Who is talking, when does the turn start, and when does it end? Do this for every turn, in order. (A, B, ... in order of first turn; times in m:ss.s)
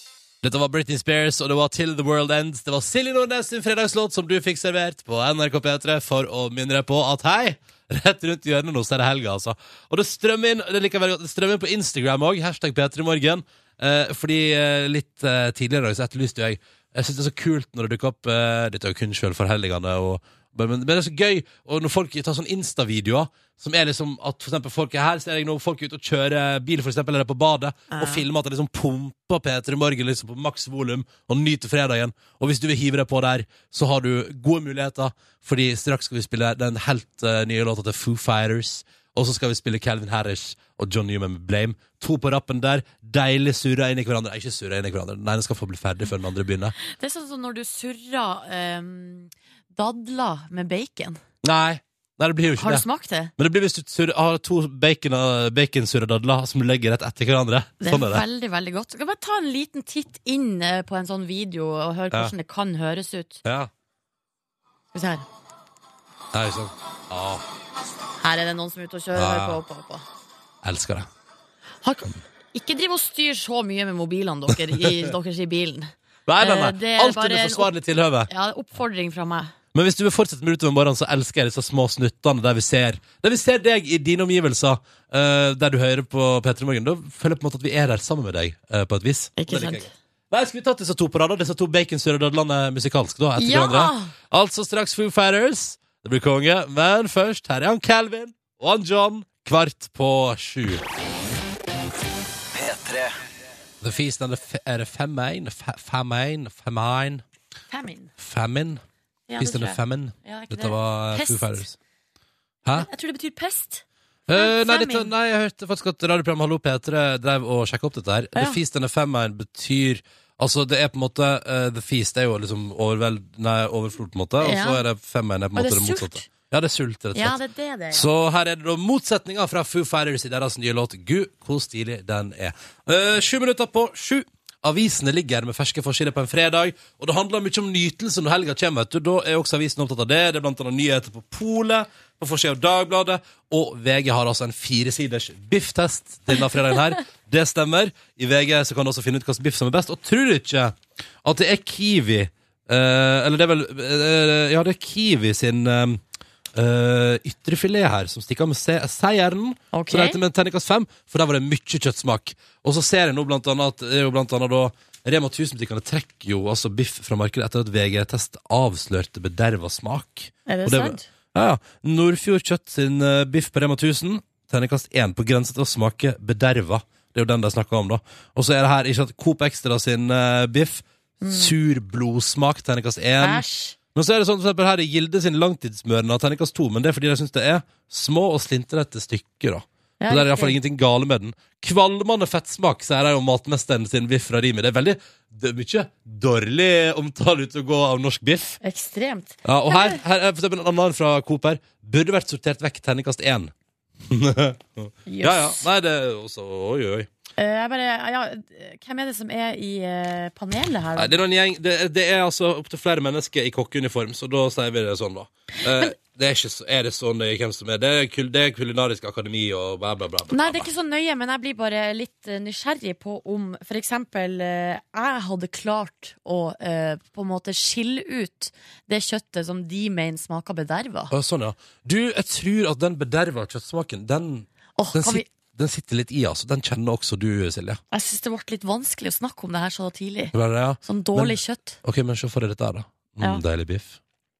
0:00.4-0:46.7 A
0:27.9-0:28.2 B
0:46.8-0:51.2 B
0:51.4-0:52.8 A
0:52.6-0:53.3 B
0:53.4-0:58.2 A
0:57.8-1:03.4 B
1:03.4-1:03.7 A
1:04.9-1:05.2 B
1:06.3-1:07.4 A
1:08.2-1:10.0 B
1:09.1-1:09.6 A
1:10.6-1:11.1 A
1:11.8-1:17.7 B
1:14.5-1:15.1 A
1:16.3-1:18.3 A
1:18.3-1:19.5 B
1:19.7-1:40.8 A
1:29.4-1:29.9 B
1:33.4-1:34.1 B
1:43.8-1:47.2 A
1:47.7-1:48.1 B
1:48.2-1:48.8 A
1:49.3-1:51.6 B
1:49.4-1:51.8 A
1:52.7-1:55.1 B
1:54.3-2:07.4 A
2:04.4-2:04.8 B
2:05.5-2:06.3 B
2:07.1-2:08.1 B
2:07.9-2:36.0 A
2:36.5-3:03.4 A
2:39.7-2:40.2 B
2:50.5-2:51.0 B
3:01.2-3:01.5 B
3:03.2-3:03.8 B
3:03.9-3:18.6 A
3:10.0-3:10.6 B
3:18.6-3:20.0 B
3:19.4-3:23.5 A
3:24.1-3:27.1 A
3:25.0-3:25.6 B
3:27.4-3:31.2 B
3:31.0-3:40.7 A
3:40.3-3:51.1 B
3:51.1-3:57.8 A
3:54.8-3:55.3 B
3:57.9-4:01.8 B
4:00.3-4:04.0 A